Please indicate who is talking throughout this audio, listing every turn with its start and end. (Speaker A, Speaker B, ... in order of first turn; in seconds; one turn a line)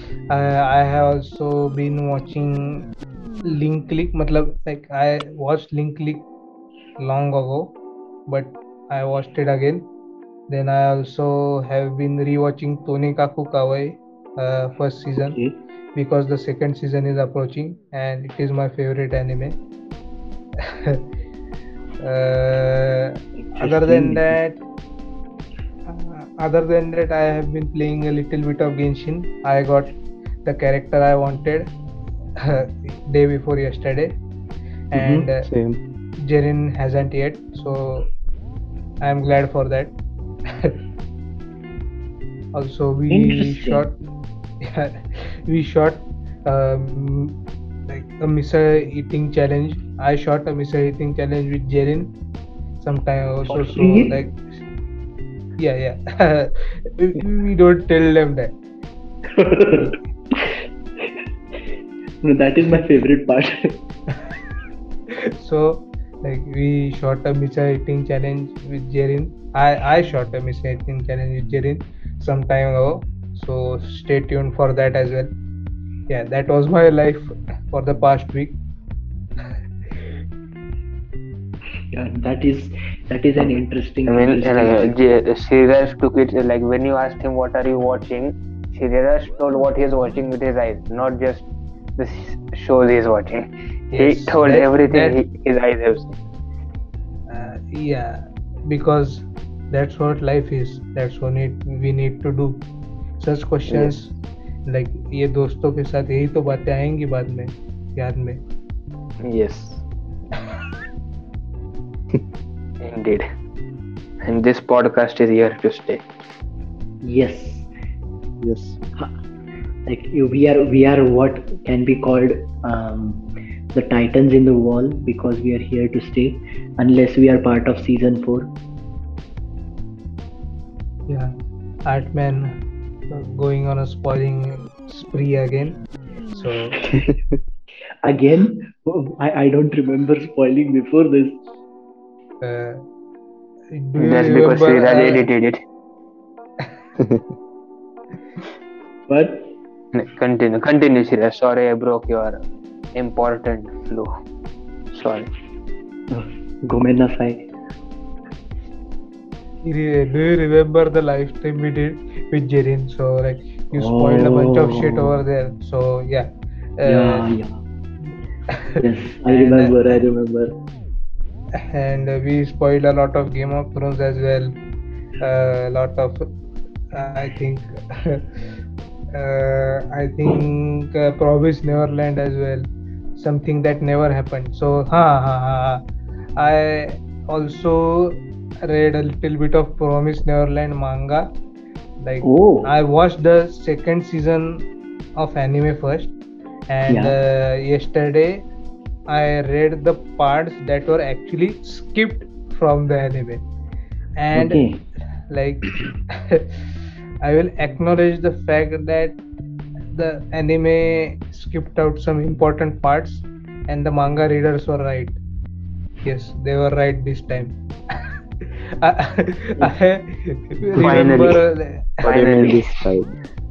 Speaker A: 0.3-2.9
Speaker A: 3.4-6.3
Speaker A: 7.0-7.7
Speaker A: 8.3-9.9
Speaker A: 10.5-15.4
Speaker B: 15.1-15.6
Speaker A: 15.9-19.6
Speaker A: 22.0-24.6
Speaker B: 23.4-24.4
Speaker A: 25.9-29.9
Speaker A: 30.4-31.7
Speaker A: 32.4-34.2
Speaker A: 34.9-35.5
Speaker B: 34.9-35.3
Speaker C: 35.5-35.8
Speaker A: 36.2-38.1
Speaker A: 39.0-39.9
Speaker A: 42.5-44.0
Speaker B: 43.1-43.8
Speaker A: 44.6-52.1
Speaker A: 52.8-54.4
Speaker B: 53.5-54.2
Speaker A: 55.6-58.5
Speaker B: 59.4-60.4
Speaker B: 62.2-63.8
Speaker A: 65.4-75.3
Speaker A: 76.1-78.6
Speaker B: 81.9-85.2
Speaker D: 84.0-91.5
Speaker D: 92.0-96.2
Speaker A: 93.9-95.2
Speaker A: 97.3-102.6
Speaker A: 103.2-104.1
Speaker A: 104.7-108.4
Speaker D: 109.2-109.8
Speaker D: 112.8-113.2
Speaker D: 114.2-116.0
Speaker B: 117.0-117.7
Speaker C: 118.4-118.8
Speaker B: 119.9-128.5
Speaker A: 131.1-131.3
Speaker A: 131.9-132.6
Speaker A: 133.1-135.8
Speaker A: 136.3-136.8
Speaker B: 136.7-137.1
Speaker B: 138.0-141.4
Speaker A: 142.4-142.8
Speaker A: 143.7-145.2
Speaker D: 144.0-145.6
Speaker C: 147.0-147.3
Speaker B: 149.1-149.5
Speaker D: 149.9-152.4
Speaker D: 152.9-154.1
Speaker D: 154.9-155.3
Speaker B: 156.1-157.5
Speaker A: 159.6-166.3
Speaker B: 163.7-165.2
Speaker A: 166.8-167.2
Speaker B: 166.8-167.6
Speaker A: 168.5-170.0
Speaker B: 168.8-170.6
Speaker A: 171.7-174.5
Speaker A: 175.2-176.2
Speaker A: 176.9-178.2
Speaker A: 179.1-185.8
Speaker A: 186.4-191.3
Speaker A: 192.0-194.6
Speaker B: 192.2-192.7
Speaker A: 195.2-196.1
Speaker A: 196.7-198.4
Speaker B: 196.9-197.2
Speaker A: 199.1-203.4
Speaker A: 204.2-204.6
Speaker B: 204.3-204.8
Speaker A: 205.3-206.5
Speaker A: 207.2-209.2
Speaker A: 209.9-215.2
Speaker A: 216.0-217.6
Speaker A: 218.8-222.1
Speaker D: 220.8-221.4
Speaker D: 222.0-222.6
Speaker C: 222.0-223.1